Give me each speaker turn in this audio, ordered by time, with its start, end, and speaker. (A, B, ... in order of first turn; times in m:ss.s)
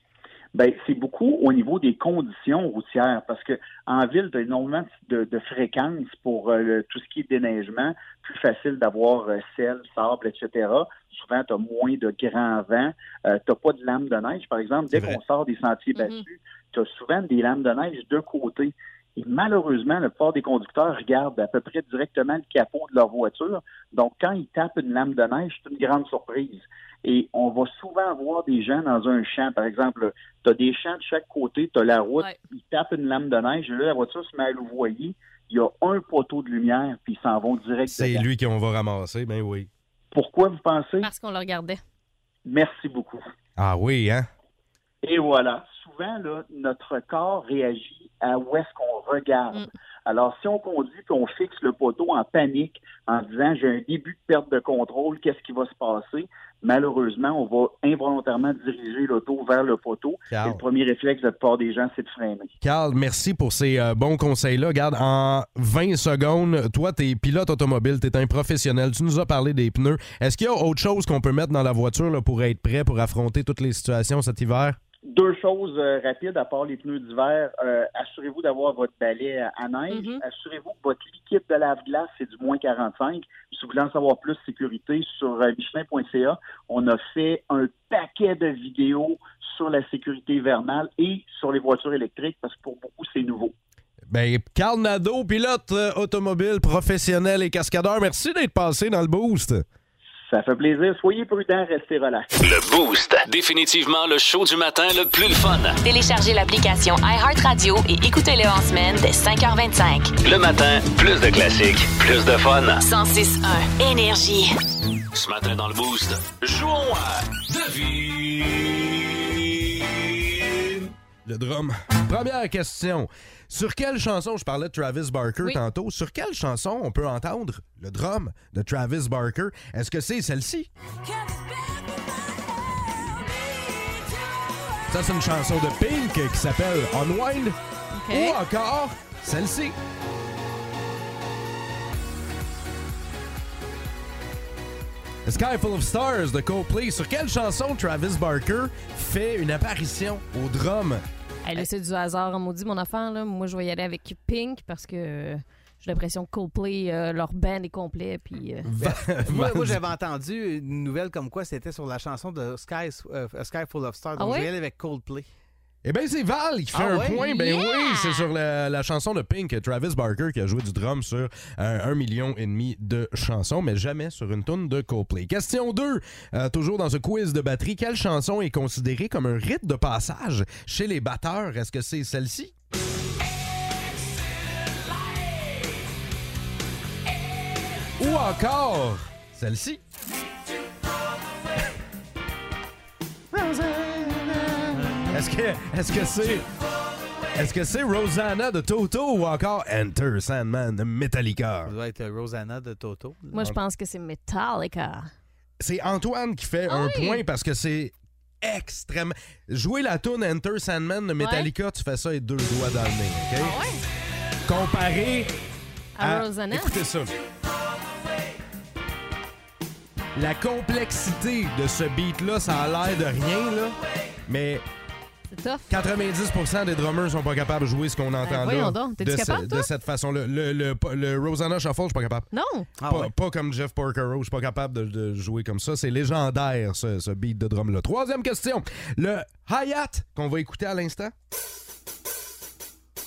0:00.5-0:38.2 A
0:14.9-0:15.2 B
0:16.0-0:16.2 C
0:37.9-0:39.7 B
0:40.1-0:41.1 A
0:41.0-0:41.8 C
0:42.5-0:43.2 A
0:43.6-0:44.3 B
0:45.0-1:02.5 A
1:00.3-1:00.6 B
1:02.6-1:14.8 B
1:15.1-1:33.5 A
1:19.9-1:20.2 C
1:34.1-1:39.6 B
1:40.3-1:42.3 A
1:42.4-1:45.8 D
1:45.8-1:50.1 E
1:50.2-1:52.8 D
1:52.8-1:54.6 E
1:55.1-1:58.9 D
2:01.3-2:10.7 B
2:14.9-2:17.6 B
2:17.9-2:18.4 C
2:18.1-2:19.8 B
2:25.2-2:31.0 B
2:31.4-2:38.7 C
2:38.6-2:39.8 B
2:38.8-2:45.3 F
2:44.2-2:44.5 C
2:45.8-3:02.5 B
2:46.7-2:47.2 F
2:47.2-2:48.3 C
3:08.0-3:09.8 B
3:13.3-3:16.5 B
3:14.7-3:15.2 F
3:17.4-3:21.7 B
3:21.7-3:23.4 F
3:23.3-3:25.1 C
3:25.6-3:33.6 B
3:26.7-3:27.2 C
3:31.2-3:31.5 C
3:33.4-3:33.8 C
3:34.5-3:35.3 B
3:36.0-3:36.8 C
3:36.0-3:37.2 B
3:40.2-3:44.6 B
3:45.3-3:45.7 C
3:45.7-3:52.3 B
3:48.2-3:49.7 C
3:52.3-3:52.7 C
3:52.8-3:53.1 F
3:52.8-4:01.1 B